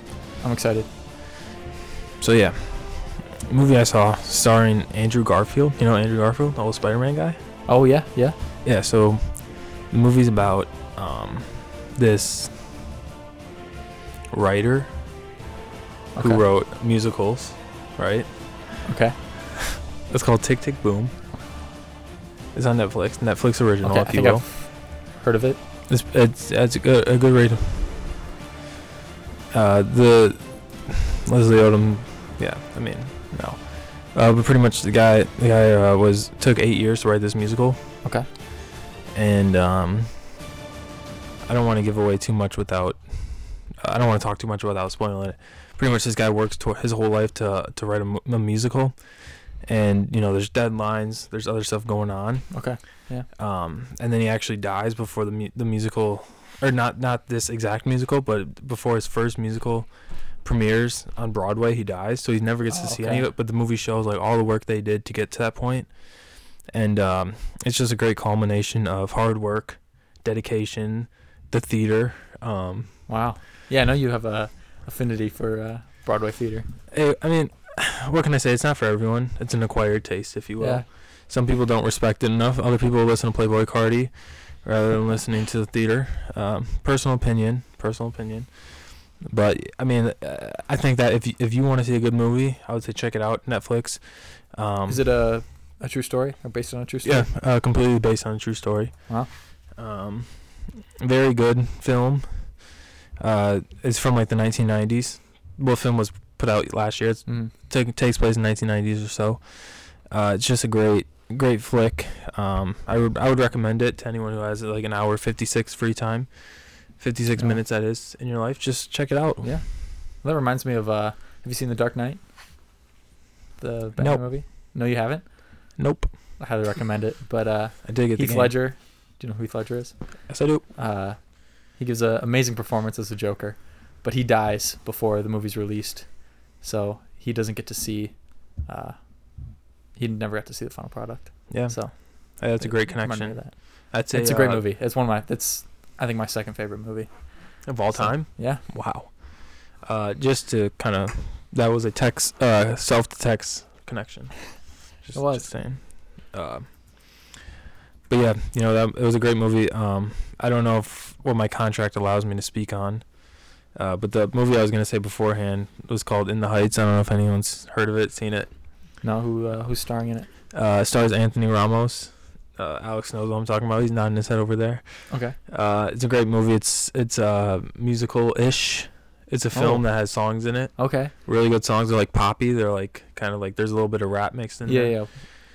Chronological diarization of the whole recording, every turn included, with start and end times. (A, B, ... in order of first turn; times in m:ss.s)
0:00.3-0:00.9 A
0:02.2-0:07.4 B
0:07.7-0:08.4 A
0:08.6-0:12.6 B
0:14.3-0:14.9 B
0:16.2-0:16.4 A
0:16.2-0:18.8 B
0:18.8-0:19.2 A
0:19.6-0:21.1 B
0:22.5-0:24.4 B
0:23.8-0:25.6 A
0:25.9-0:28.1 B
0:29.5-0:37.8 B
0:39.1-0:40.3 B
0:41.4-0:52.7 B
0:52.5-0:53.3 A
0:53.4-1:13.0 B
1:02.7-1:03.3 A
1:13.1-1:16.7 A
1:16.9-1:35.0 B
1:20.6-1:20.8 A
1:34.9-1:37.3 A
1:37.0-1:59.6 B
1:47.2-1:47.5 A
1:59.4-2:02.2 A
2:03.6-2:05.7 A
2:04.0-2:04.4 B
2:05.8-2:06.1 B
2:06.4-2:19.0 A
2:07.8-2:08.6 B
2:10.3-2:10.6 B
2:20.0-2:27.1 A
2:21.5-2:24.6 B
2:27.6-2:36.7 B
2:27.7-2:28.6 A
2:35.1-2:35.8 A
2:38.1-2:43.1 B
2:43.7-2:48.5 B
2:49.0-2:50.3 A
2:50.5-3:05.0 B
2:55.1-2:55.4 A
2:59.5-2:59.9 A
3:00.8-3:01.1 A
3:04.6-3:05.1 A